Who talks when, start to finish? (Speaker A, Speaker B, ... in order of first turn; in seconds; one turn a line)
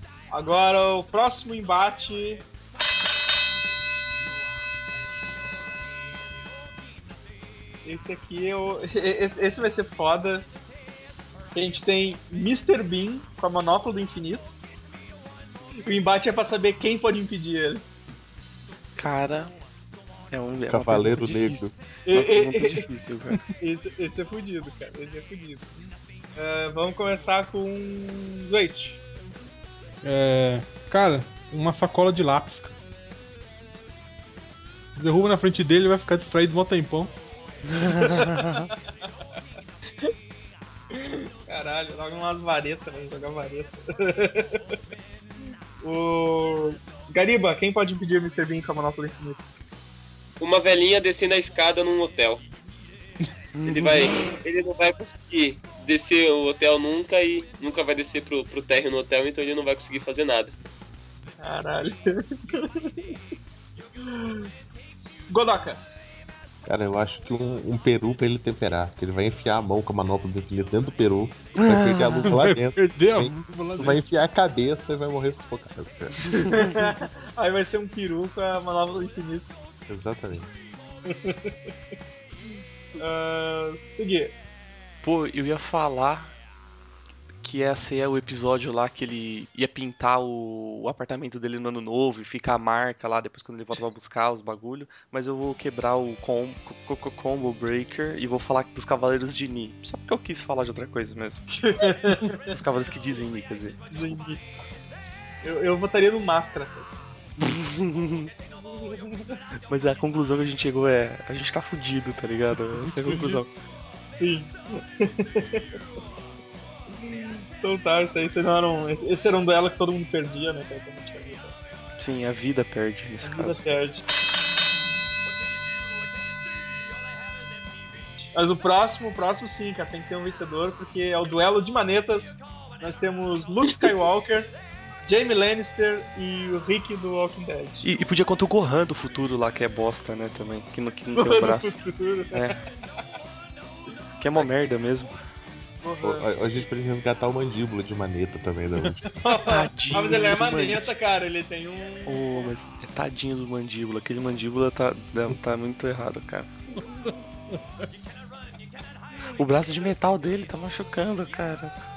Speaker A: 0.3-2.4
Speaker A: 7.8-10.5
Speaker A: 11.5-14.6
Speaker A: 15.8-17.8
Speaker B: 19.0-19.5
Speaker B: 20.3-23.4
Speaker C: 20.7-21.7
Speaker A: 22.1-22.9
Speaker A: 23.6-25.7
Speaker A: 26.4-29.0
Speaker D: 30.0-32.7
Speaker D: 35.0-37.1
Speaker B: 37.7-38.7
Speaker A: 38.0-38.7
Speaker A: 40.9-44.6
Speaker A: 45.8-49.4
Speaker E: 50.4-52.4
Speaker B: 53.5-54.3
Speaker E: 53.6-60.5
Speaker A: 61.4-63.1
Speaker A: 64.0-65.8
Speaker C: 66.6-76.2
Speaker B: 71.6-72.3
Speaker D: 72.2-74.0
Speaker A: 76.5-79.5
Speaker C: 79.9-80.5
Speaker A: 81.0-81.5
Speaker A: 83.0-84.3
Speaker B: 85.0-86.3
Speaker B: 87.4-101.5
Speaker A: 101.5-102.5
Speaker B: 102.5-104.1
Speaker A: 103.9-104.4
Speaker A: 105.4-106.9
Speaker B: 107.4-108.3
Speaker A: 108.6-109.4
Speaker B: 109.7-113.5
Speaker D: 113.1-113.3
Speaker A: 114.1-115.7
Speaker A: 116.9-121.5
Speaker B: 122.0-123.6
Speaker A: 123.2-124.0
Speaker A: 128.3-134.5
Speaker A: 135.1-137.8
Speaker B: 137.8-141.8
Speaker A: 141.1-142.5
Speaker B: 142.3-142.6
Speaker B: 144.2-145.2
Speaker A: 145.8-146.7
Speaker C: 146.0-149.0
Speaker A: 149.1-152.5
Speaker B: 149.4-150.9
Speaker B: 152.1-156.5
Speaker B: 159.4-161.7